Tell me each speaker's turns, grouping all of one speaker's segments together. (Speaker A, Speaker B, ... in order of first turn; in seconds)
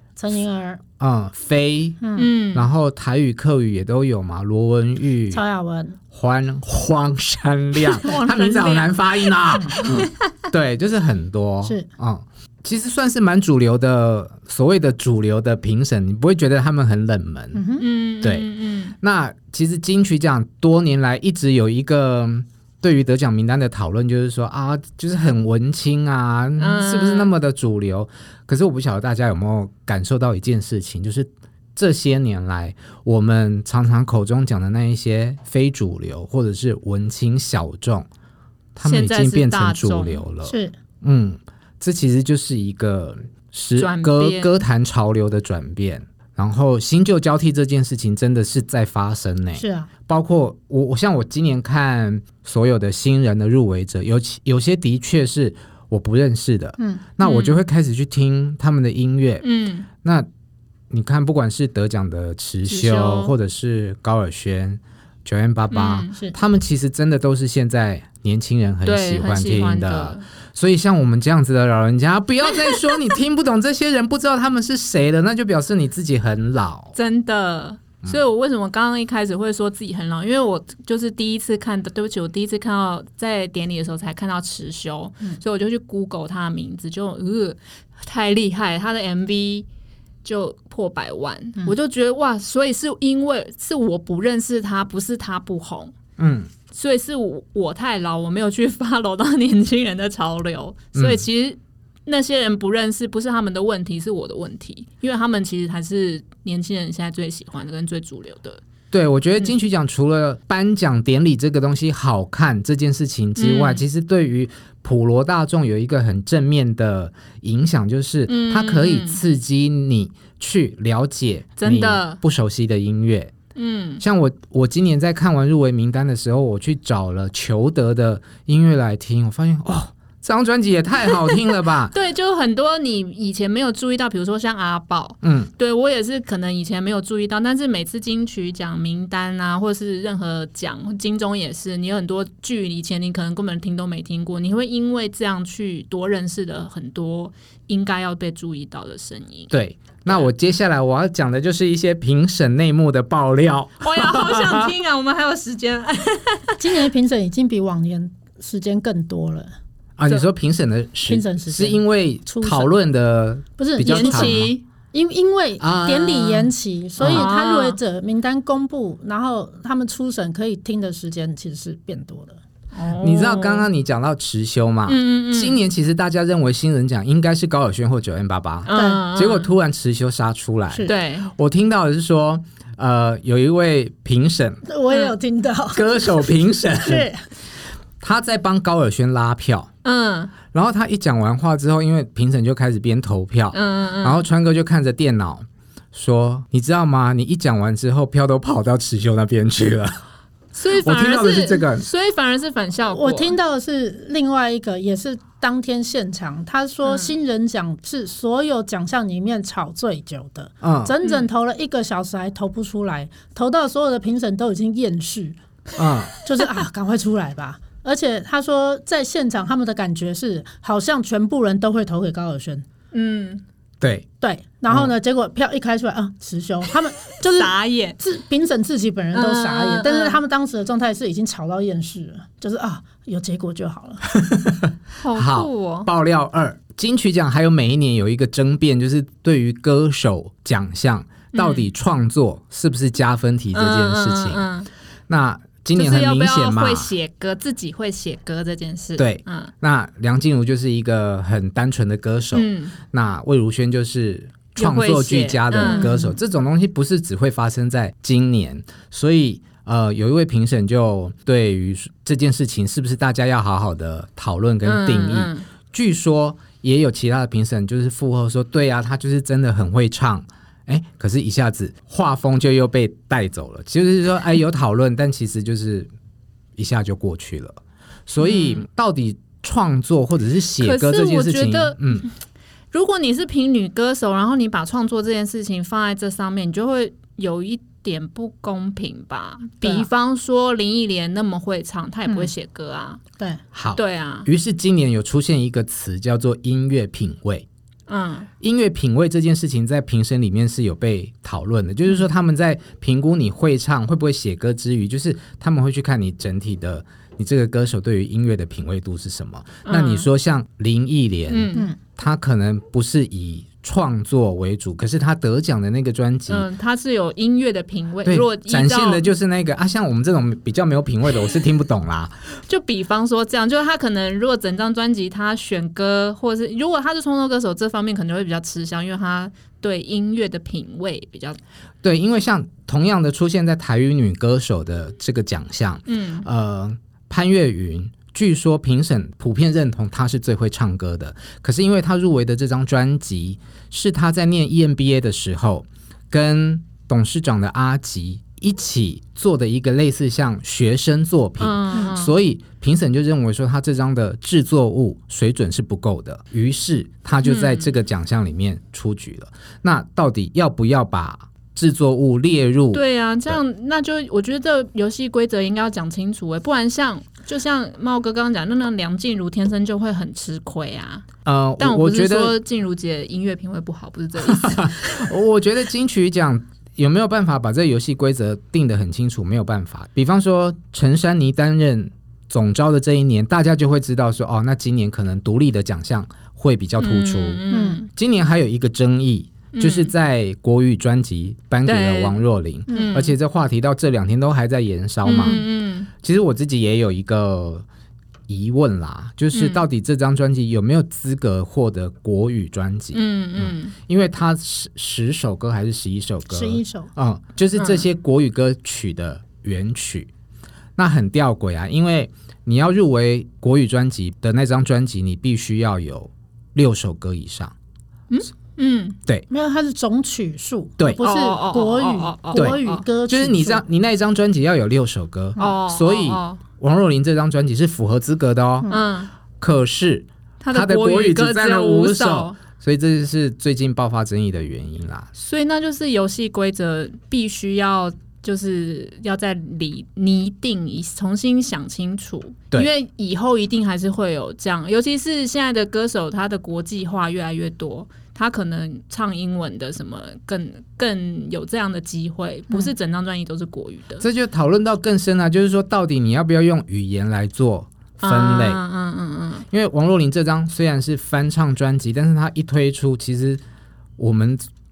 Speaker A: 0.2-0.8, 2.0-2.3, 5.3-6.0, 17.5-17.8, 40.5-40.7, 49.6-49.9, 56.8-57.0, 156.6-159.5, 161.1-162.7, 163.6-164.4, 164.9-172.4, 178.7-179.0, 184.7-186.1, 186.8-187.2, 202.9-215.4, 216.2-222.6, 224.2-234.1, 255.6-256.1, 289.6-289.9, 292.1-292.3, 387.5-387.8, 392.7-393.0, 406.3-406.9, 419.3-423.6
Speaker B: 1.0-2.0, 2.5-5.4, 6.1-17.6, 18.2-18.5, 19.0-38.1, 38.8-59.4, 60.9-76.9, 96.2-96.5, 101.0-101.2, 108.9-123.3, 124.0-131.9, 135.2-135.5, 149.5-154.7, 160.0-164.5, 165.6-167.3, 173.0-184.6, 185.7-187.1, 188.0-189.7, 190.5-200.0, 200.8-201.8, 210.6-210.9, 215.8-216.1, 223.8-224.1, 234.1-244.5, 245.1-246.9, 249.0-275.9, 276.6-282.1, 293.5-297.5, 298.4-316.5, 318.0-322.2, 331.8-363.4, 371.2-372.4, 374.2-395.4, 396.0-397.6, 398.3-410.1, 410.8-417.5, 422.3-428.7, 429.4-435.1, 454.0-458.6, 459.5-463.4, 464.0-464.5
Speaker C: 2.1-2.7, 7.9-10.1, 17.8-18.9, 26.6-27.3, 38.8-40.2, 43.8-44.5, 57.2-57.6, 59.4-59.9, 62.7-63.3, 65.7-66.1, 68.8-70.2, 77.0-89.7, 90.2-95.9, 96.7-108.6, 113.4-113.8, 118.3-119.2, 121.6-122.2, 123.6-124.0, 131.9-149.5, 153.8-156.6, 163.9-164.6, 167.1-167.8, 172.7-173.7, 174.9-175.6, 178.7-179.5, 180.9-181.3, 189.8-190.3, 193.5-194.2, 200.5-203.4, 222.9-223.4, 227.3-228.0, 229.1-230.2, 235.0-235.9, 241.3-241.7, 243.5-244.7, 245.8-249.5, 252.3-252.8, 254.6-255.9, 264.6-265.5, 278.2-278.6, 280.6-282.1, 282.7-293.0, 293.8-294.3, 297.9-298.3, 309.7-310.1, 311.3-311.7, 316.3-319.1, 322.5-331.4, 335.9-336.2, 351.4-352.1, 357.2-357.7, 362.7-371.1, 371.6-375.0, 386.8-387.9, 389.5-389.9, 391.6-393.1, 395.0-395.9, 399.3-399.6, 402.9-403.7, 407.6-407.8, 418.1-419.0, 421.0-422.8, 425.4-426.4, 428.7-429.1, 430.4-432.4, 435.2-454.0, 458.0-459.5